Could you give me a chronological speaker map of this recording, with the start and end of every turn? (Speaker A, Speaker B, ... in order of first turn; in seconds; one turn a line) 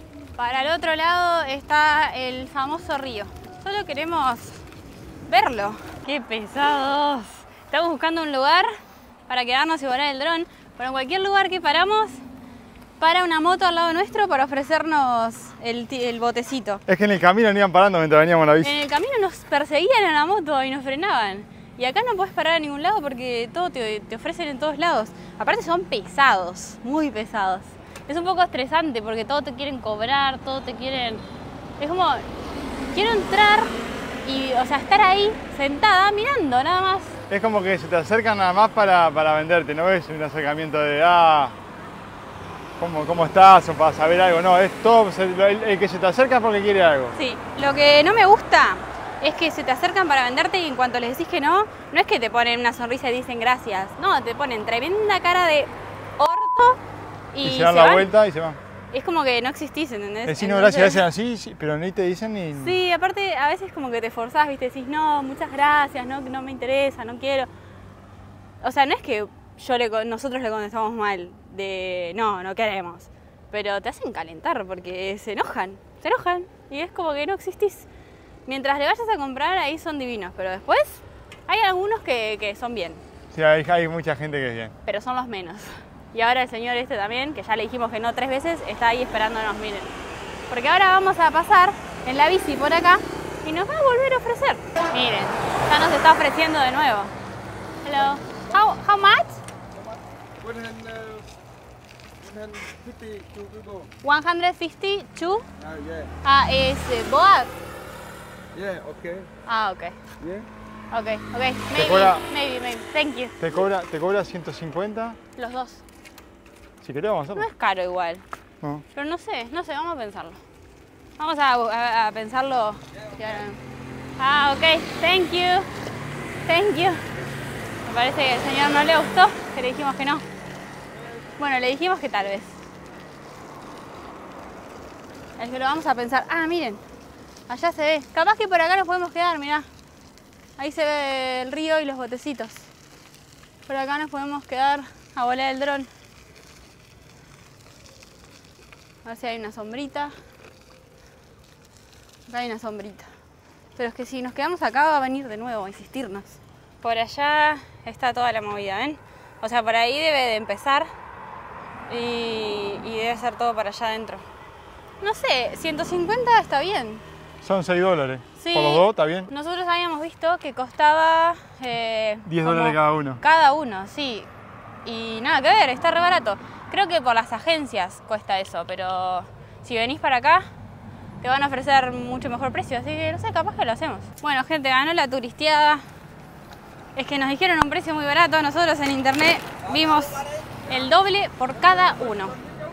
Speaker A: 0.4-4.6
Speaker A: 5.3-8.7
Speaker A: 9.3-12.2
Speaker A: 13.0-16.8
Speaker B: 16.9-18.8
Speaker A: 18.6-31.2
Speaker A: 31.8-32.2
Speaker A: 32.9-33.7
Speaker A: 34.2-37.2
Speaker B: 37.3-41.5
Speaker B: 42.8-47.1
Speaker A: 47.1-56.8
Speaker A: 57.3-58.1
Speaker B: 57.4-58.6
Speaker A: 58.9-61.0
Speaker B: 60.2-62.8
Speaker A: 62.5-67.5
Speaker A: 68.6-77.9
Speaker A: 78.5-83.0
Speaker B: 83.3-84.7
Speaker A: 84.8-89.9
Speaker A: 90.5-97.1
Speaker A: 97.8-99.4
Speaker C: 99.8-101.3
Speaker C: 102.2-103.9
Speaker A: 104.0-105.5
Speaker C: 105.6-106.1
Speaker A: 106.2-107.5
Speaker C: 108.5-109.3
Speaker A: 109.5-110.0
Speaker C: 110.2-110.5
Speaker A: 110.9-113.3
Speaker B: 111.7-112.2
Speaker B: 113.4-115.2
Speaker A: 115.4-115.8
Speaker B: 116.8-117.5
Speaker A: 117.3-118.2
Speaker A: 118.9-120.4
Speaker A: 121.2-123.6
Speaker A: 124.2-125.7
Speaker A: 126.5-127.0
Speaker A: 127.8-130.2
Speaker A: 131.4-132.6
Speaker A: 135.4-136.8
Speaker A: 137.5-139.7
Speaker A: 140.6-142.7
Speaker A: 143.7-145.9
Speaker A: 149.0-150.1
Speaker A: 152.3-153.1
Speaker A: 153.8-160.9
Speaker A: 161.9-164.2
Speaker A: 165.0-167.0
Speaker B: 167.4-169.3
Speaker A: 168.4-174.3
Speaker B: 172.2-173.2
Speaker A: 174.8-180.5
Speaker A: 181.2-185.8
Speaker A: 186.9-192.3